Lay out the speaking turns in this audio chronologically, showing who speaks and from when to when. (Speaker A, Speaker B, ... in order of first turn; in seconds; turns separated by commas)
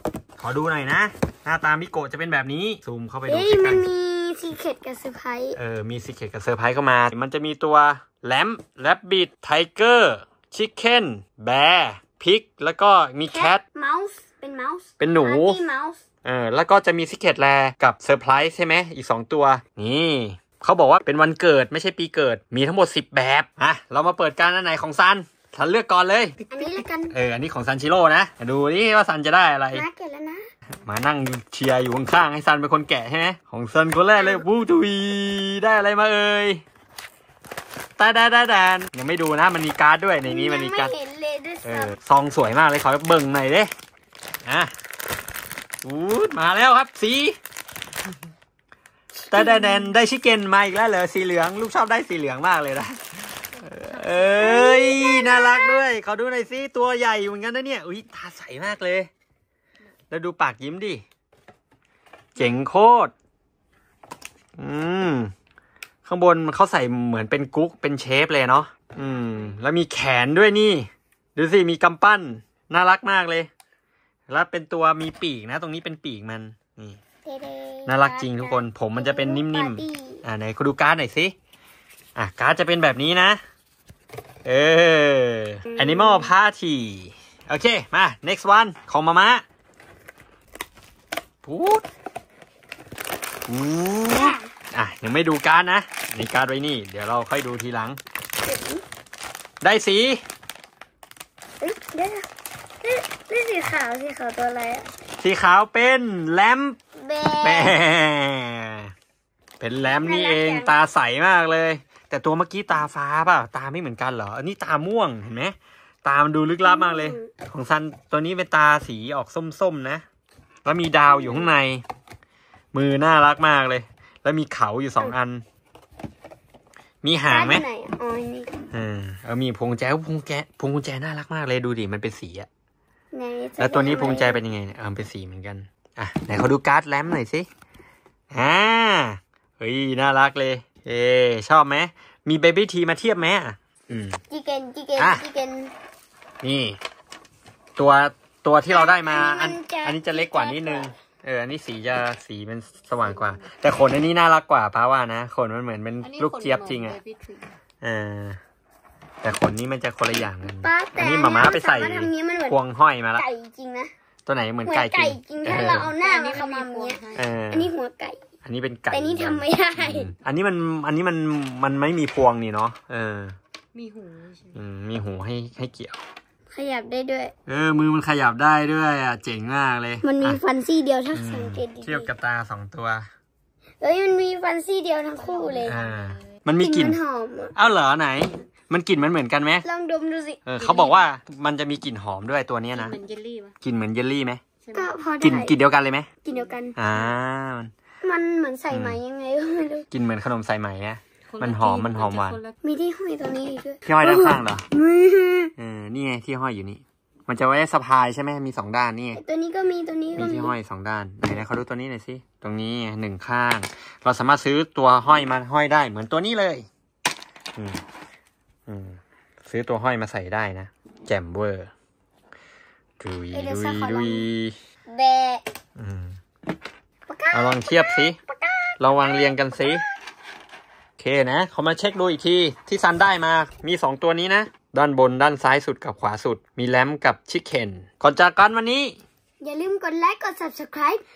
Speaker A: 0.4-3.8, Speaker B: 3.3-5.6, Speaker A: 5.5-13.6, Speaker B: 13.3-16.1, Speaker A: 15.0-15.6, Speaker A: 16.2-26.5, Speaker B: 26.5-27.1, Speaker A: 27.1-29.8, Speaker B: 29.7-30.4, Speaker A: 30.8-36.6, Speaker B: 34.1-34.5, Speaker A: 38.0-40.9, Speaker B: 40.2-42.0, Speaker A: 41.6-43.7, Speaker A: 44.4-44.7, Speaker A: 45.8-47.4, Speaker A: 49.3-59.1, Speaker B: 49.3-49.8, Speaker B: 54.1-55.8, Speaker A: 60.1-61.0, Speaker A: 62.4-63.1, Speaker A: 64.6-65.3, Speaker A: 66.0-73.5, Speaker A: 74.3-77.0, Speaker B: 77.2-80.2, Speaker A: 77.8-81.3, Speaker A: 82.2-83.4, Speaker A: 84.4-89.4, Speaker B: 85.7-86.3, Speaker A: 91.4-91.8, Speaker A: 93.5-98.0, Speaker B: 94.1-94.5, Speaker B: 98.4-98.8, Speaker A: 99.6-100.2, Speaker B: 101.6-102.3, Speaker B: 102.8-104.9, Speaker A: 105.2-106.8, Speaker B: 107.0-107.8, Speaker A: 107.4-108.9, Speaker A: 109.6-120.0, Speaker B: 110.0-110.8, Speaker B: 116.6-117.3, Speaker A: 120.6-121.8, Speaker B: 121.1-121.5, Speaker A: 122.7-125.4, Speaker A: 127.0-127.6, Speaker B: 127.3-128.5, Speaker A: 128.7-132.5, Speaker B: 133.1-134.4, Speaker A: 133.6-137.5, Speaker A: 138.3-144.2, Speaker B: 144.3-145.7, Speaker A: 145.0-145.2, Speaker A: 146.4-146.8, Speaker A: 147.8-157.0, Speaker B: 148.7-150.9, Speaker C: 156.0-157.5, Speaker A: 157.8-158.4, Speaker A: 159.2-163.2, Speaker B: 160.6-162.6, Speaker B: 163.1-163.9, Speaker A: 164.2-165.9, Speaker B: 164.6-168.2, Speaker C: 165.8-167.3, Speaker A: 167.2-167.7, Speaker A: 168.4-173.3, Speaker B: 168.9-170.1, Speaker C: 173.7-174.6, Speaker A: 174.5-176.0, Speaker B: 176.5-177.3, Speaker A: 177.4-180.4, Speaker B: 180.0-182.1, Speaker A: 181.1-183.1, Speaker B: 183.8-185.8, Speaker C: 185.2-186.3, Speaker A: 185.6-187.0, Speaker B: 186.6-187.6, Speaker A: 187.5-189.6, Speaker B: 189.6-191.0, Speaker A: 190.4-192.9, Speaker C: 192.7-193.6, Speaker A: 193.6-194.4, Speaker C: 194.6-194.9, Speaker B: 194.7-195.6, Speaker A: 195.2-196.1, Speaker B: 196.2-196.8, Speaker A: 196.8-197.7, Speaker B: 198.0-199.9, Speaker A: 198.7-199.0, Speaker A: 199.9-202.4, Speaker C: 201.3-202.6, Speaker B: 202.6-205.5, Speaker A: 203.8-204.7, Speaker A: 205.6-209.2, Speaker B: 209.1-210.6, Speaker A: 210.2-216.7, Speaker A: 218.7-221.7, Speaker A: 223.0-224.5, Speaker B: 223.3-224.2, Speaker B: 224.9-225.4, Speaker A: 225.8-226.2, Speaker B: 227.1-229.8, Speaker A: 227.3-228.2, Speaker A: 228.8-229.8, Speaker A: 231.0-239.0, Speaker B: 239.4-241.0